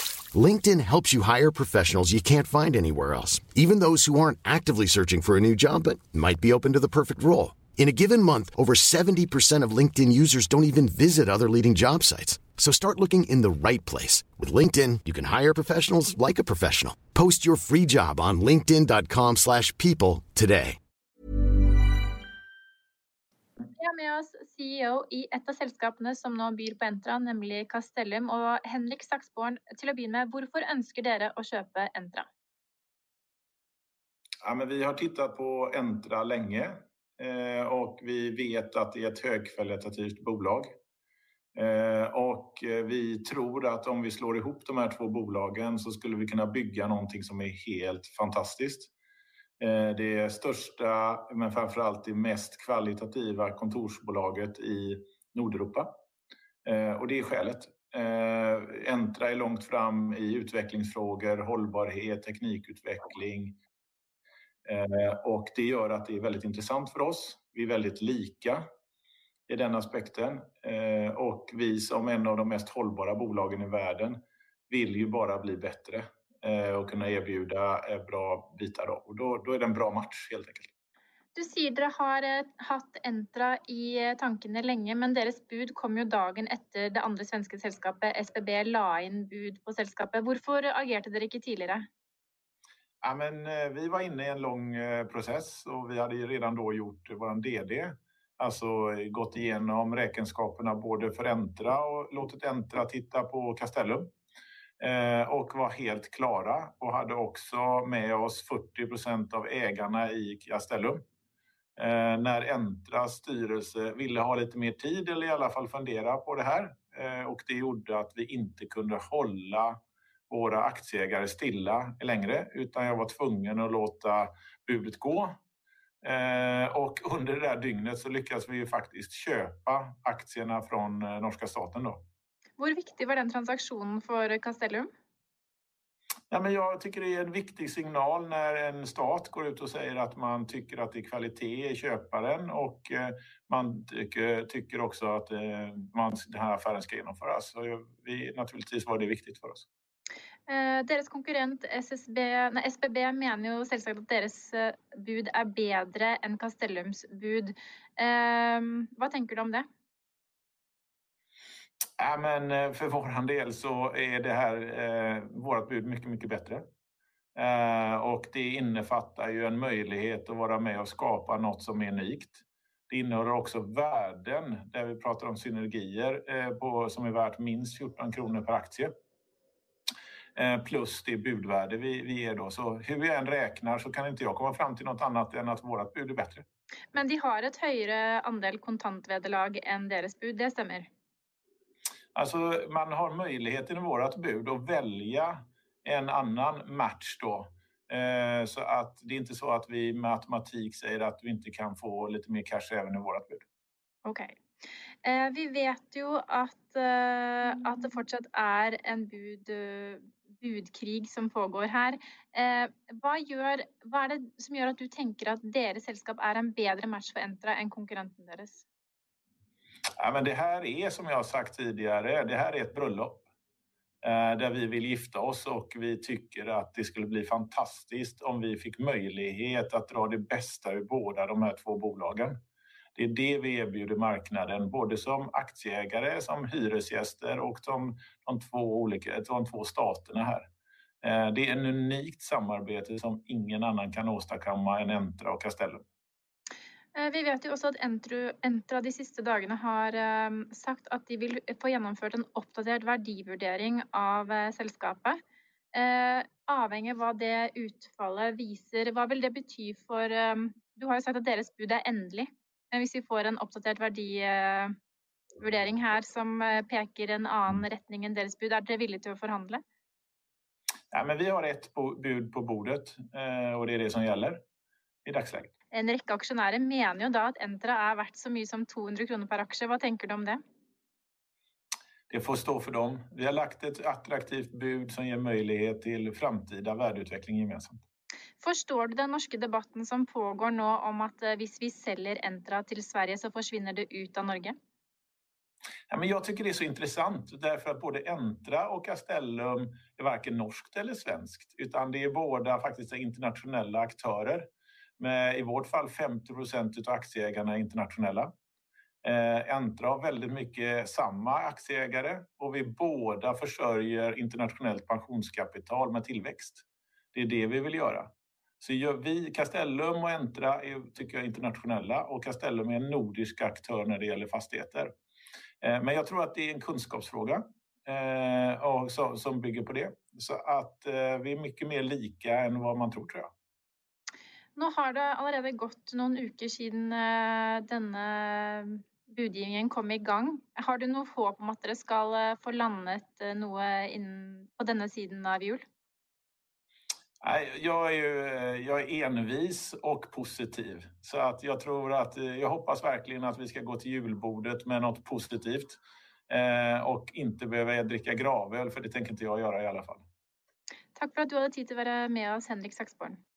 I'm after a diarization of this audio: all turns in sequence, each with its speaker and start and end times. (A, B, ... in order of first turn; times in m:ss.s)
0:00.3-0:20.8 A
0:23.7-0:32.2 B
0:34.4-0:40.7 C
0:41.5-0:48.9 C
0:49.6-0:55.9 C
0:56.6-1:03.6 C
1:04.6-1:08.6 C
1:09.5-1:20.7 C
1:21.3-1:31.8 B
1:33.0-1:44.1 C
1:44.8-1:51.0 C
1:51.8-1:59.8 C
2:00.3-2:05.4 C
2:06.0-2:12.0 C
2:12.6-2:14.9 B
2:16.3-2:29.7 C
2:30.5-2:39.6 B
2:42.0-2:46.6 C
2:47.4-2:58.9 C
3:00.4-3:06.4 C
3:06.9-3:10.9 B
3:12.1-3:23.4 C
3:24.0-3:24.3 B
3:25.0-3:38.6 B
3:40.0-3:43.2 C
3:44.0-3:52.4 C
3:53.0-4:00.5 C
4:01.0-4:05.8 C
4:06.9-4:15.2 B
4:15.7-4:24.7 B
4:25.4-4:29.6 B
4:30.9-4:34.4 C
4:35.0-4:35.5 C
4:35.7-4:40.4 B
4:42.1-4:47.8 C
4:48.4-4:54.6 B
4:55.9-5:04.5 C
5:05.0-5:08.3 C
5:09.0-5:24.9 C
5:25.6-5:33.3 C
5:34.6-5:45.6 B
5:47.2-6:00.0 C
6:01.0-6:03.2 B